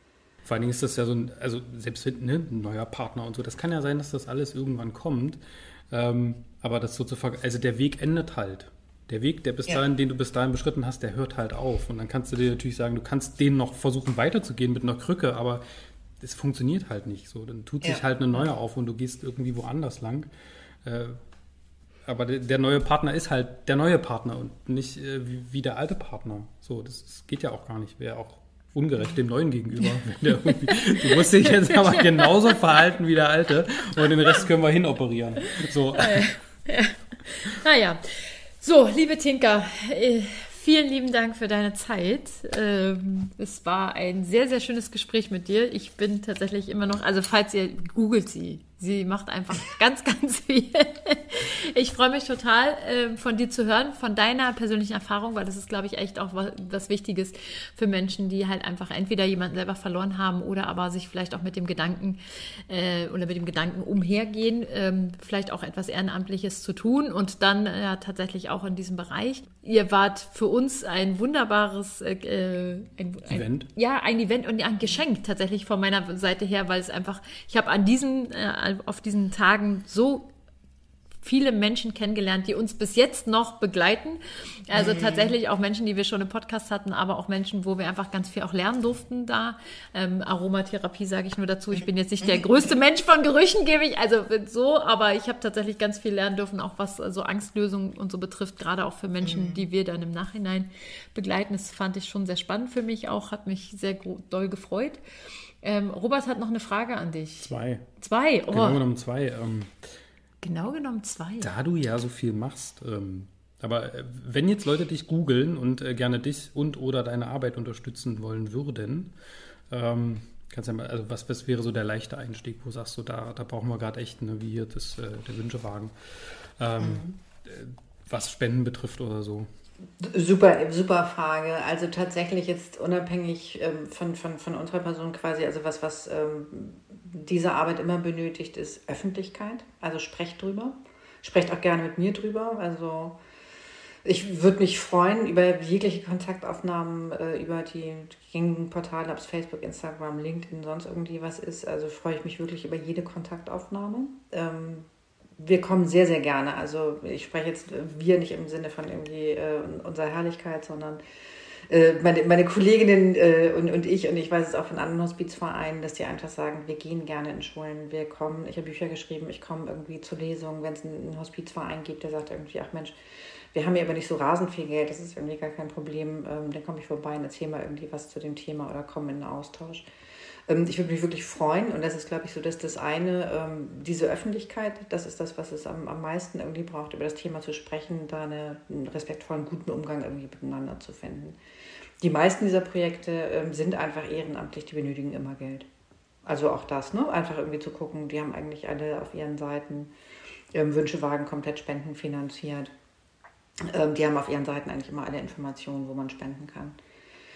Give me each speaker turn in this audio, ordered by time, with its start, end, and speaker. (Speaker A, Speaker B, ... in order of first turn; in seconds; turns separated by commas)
Speaker A: 0.5-15.6, Speaker A: 16.2-20.3, Speaker A: 20.8-21.2, Speaker A: 22.1-36.3, Speaker B: 30.4-32.6, Speaker B: 36.0-80.3, Speaker A: 73.3-73.7, Speaker B: 81.2-105.0, Speaker C: 84.8-85.3, Speaker B: 105.6-108.8, Speaker A: 107.4-107.9, Speaker A: 108.5-109.8, Speaker B: 110.4-111.5, Speaker A: 111.4-119.1, Speaker A: 119.7-129.5, Speaker C: 130.0-143.2, Speaker C: 144.1-161.0, Speaker C: 161.7-179.9, Speaker C: 180.5-191.4, Speaker C: 192.0-195.7, Speaker C: 196.2-199.9, Speaker C: 200.5-202.7, Speaker C: 203.6-206.8